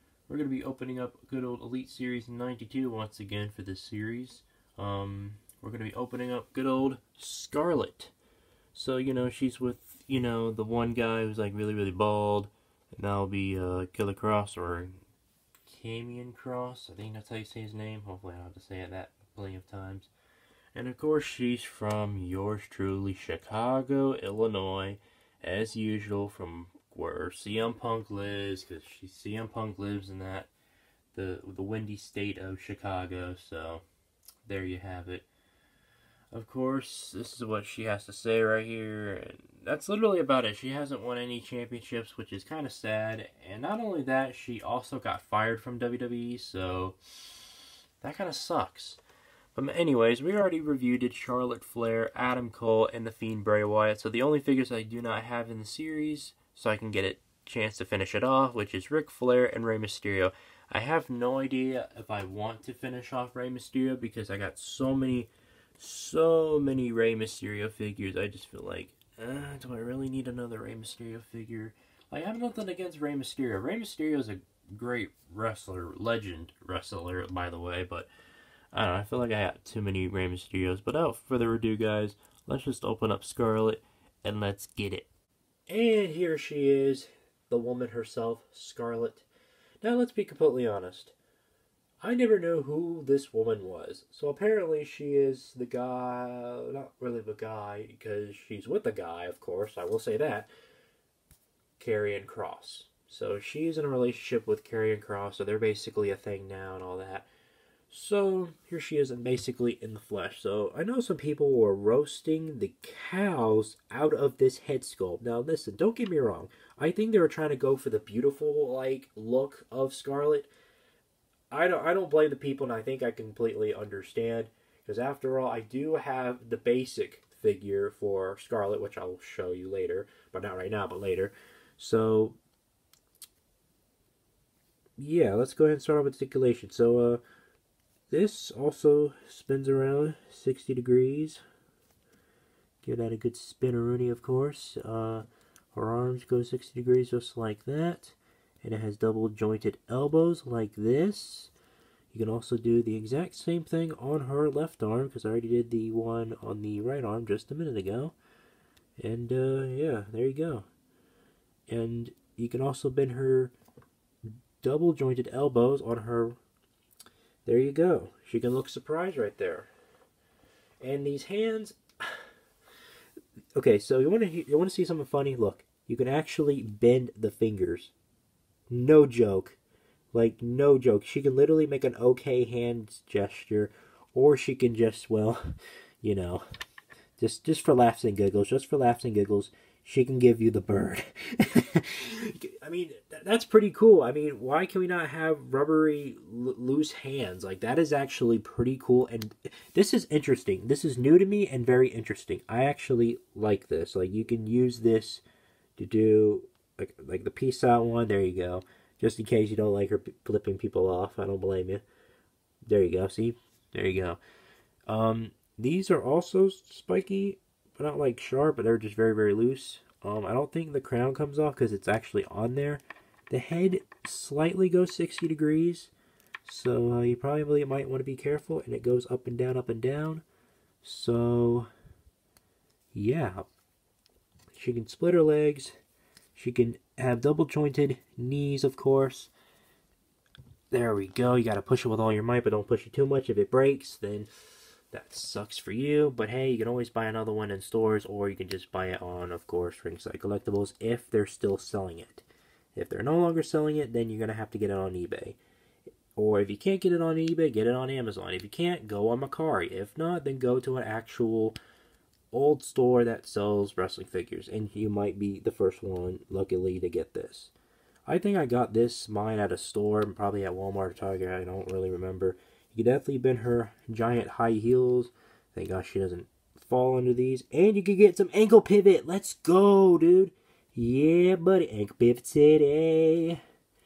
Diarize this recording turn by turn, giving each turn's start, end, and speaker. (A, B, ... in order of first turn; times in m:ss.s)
0:00.3-0:08.1 A
0:08.7-0:15.0 A
0:15.7-0:20.1 A
0:20.7-0:30.5 A
0:31.1-0:33.8 A
0:34.4-0:35.3 A
0:36.3-0:47.4 A
0:48.0-0:49.0 A
0:49.6-1:18.1 A
1:18.7-1:25.1 A
1:25.7-1:29.3 A
1:29.8-1:31.2 A
1:32.0-1:40.5 A
1:41.8-1:47.3 A
1:47.9-2:00.5 A
2:01.5-2:12.4 A
2:15.0-2:17.2 A
2:18.1-2:21.4 A
2:22.8-2:31.5 A
2:32.1-2:38.2 A
2:39.0-2:40.7 A
2:41.7-2:43.5 A
2:44.6-2:46.4 A
2:47.4-2:49.7 A
2:50.8-2:52.3 A
2:53.6-2:57.9 A
2:58.7-2:59.6 A
3:00.1-3:06.4 A
3:07.2-3:25.2 A
3:25.8-3:31.8 A
3:32.7-3:34.2 A
3:34.9-3:45.9 A
3:46.4-3:50.2 A
3:50.8-3:51.7 A
3:52.9-3:53.5 A
3:54.5-3:55.8 A
3:56.4-3:59.3 A
4:00.7-4:04.3 A
4:04.9-4:15.4 A
4:16.2-4:21.6 A
4:22.3-4:27.5 A
4:28.1-4:43.4 A